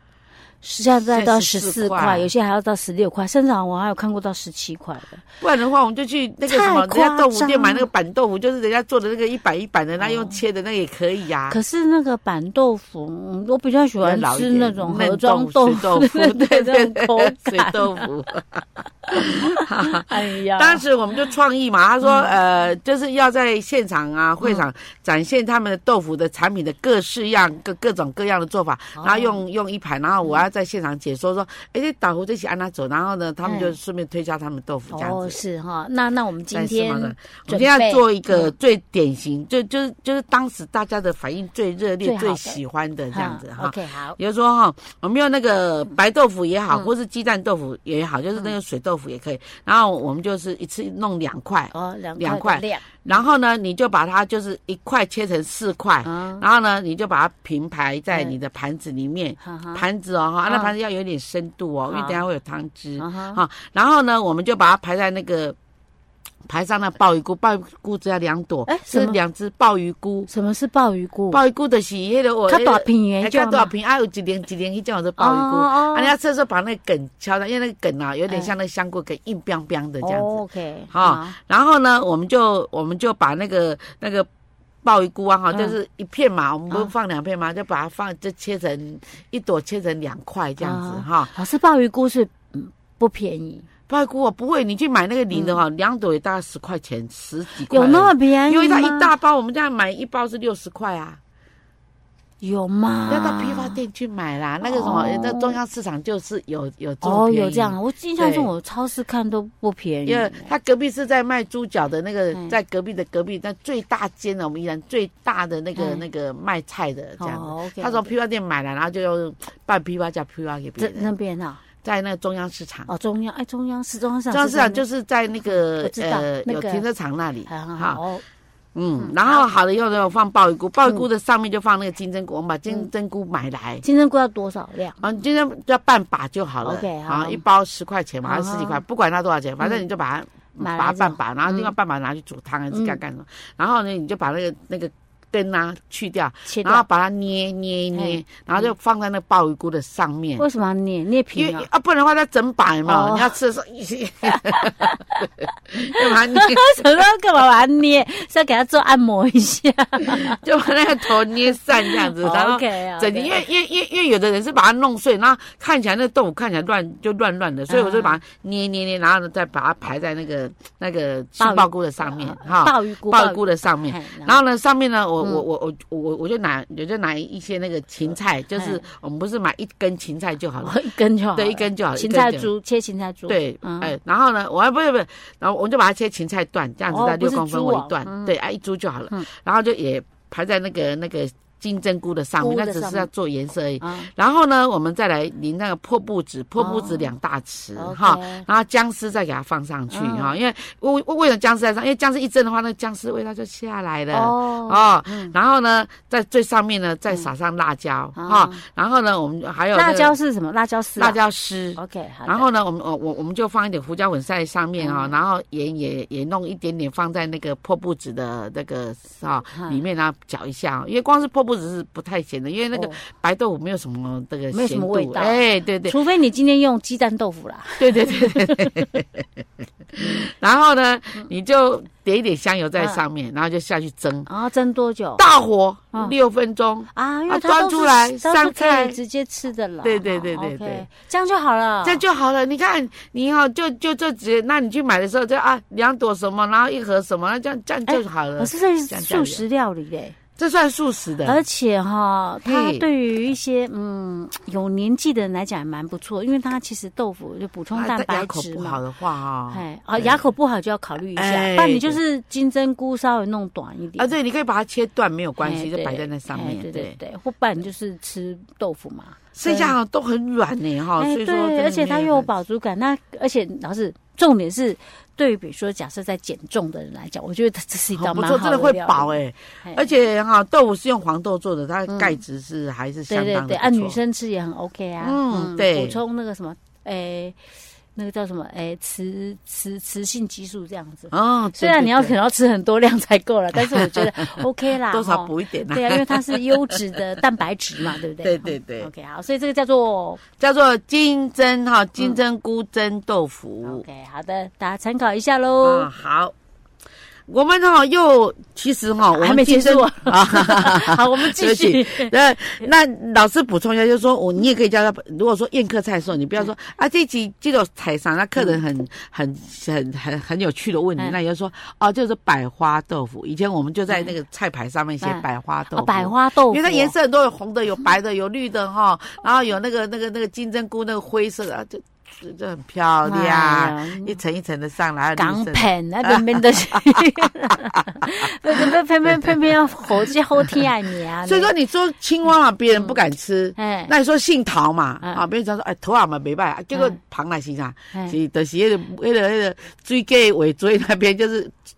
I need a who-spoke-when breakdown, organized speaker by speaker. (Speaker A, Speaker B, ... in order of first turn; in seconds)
Speaker A: 0.6-5.2, 6.5-7.9, 10.0-10.4, 11.5-18.1, 19.1-20.8, 22.0-22.3, 29.0-29.4, 33.4-33.7, 34.9-38.5, 42.0-42.6, 43.1-44.2, 51.7-53.0, 56.0-56.4, 59.4-59.8, 60.5-60.7, 61.9-62.2, 63.0-63.4, 68.7-69.2, 70.3-71.4, 72.5-73.7, 75.2-76.1, 80.0-81.3, 90.6-93.7, 95.3-95.6, 97.7-99.1, 102.4-103.8, 104.6-105.6, 107.0-110.5, 115.8-116.0, 117.2-118.1, 120.8-121.6, 122.9-124.8, 125.5-126.9, 127.5-128.2, 129.0-129.5, 133.8-135.0, 136.6-137.4, 138.2-138.8, 140.6-141.7, 142.7-143.0, 146.5-146.8, 147.9-148.7, 150.4-151.7, 152.8-153.3, 154.3-155.3, 155.9-160.4, 161.8-163.4, 167.7-168.2, 171.4-174.4, 178.6-178.8, 180.6-183.9, 186.9-188.3, 192.4-193.1, 193.8-194.1, 196.6-197.1, 197.8-198.4, 199.9-200.3, 204.1-205.3, 208.2-208.6, 209.7-211.2, 211.8-212.5, 214.8-215.2, 219.5-219.8, 222.7-223.0, 224.5-228.9, 234.3-235.2, 236.9-242.0, 247.9-250.2, 251.2-258.8, 259.5-264.1, 265.4-269.7, 271.0-279.8, 281.9-282.2, 283.1-287.4, 287.9-300.2, 303.6-305.9, 309.1-312.1, 325.0-326.9, 333.0-334.2, 335.1-341.5, 343.6-343.9
Speaker B: 1.1-2.3, 5.4-11.6, 14.0-35.4, 36.5-65.5, 66.5-70.3, 71.3-84.3, 84.8-91.3, 93.9-101.2, 103.1-108.5, 110.0-121.1, 121.8-122.9, 124.3-128.0, 128.7-133.8, 135.0-150.4, 151.3-156.8, 160.1-180.8, 181.3-182.5, 183.3-210.1, 210.9-225.9, 227.8-234.3, 235.2-239.0, 239.8-240.8, 241.8-249.4, 250.4-251.4, 252.4-252.8, 257.7-260.2, 261.1-262.0, 264.0-267.0, 269.3-272.3, 277.9-284.0, 285.0-286.0, 291.1-292.1, 293.5-296.8, 298.2-298.9, 300.4-303.8, 305.6-306.3, 307.3-340.7, 341.2-351.5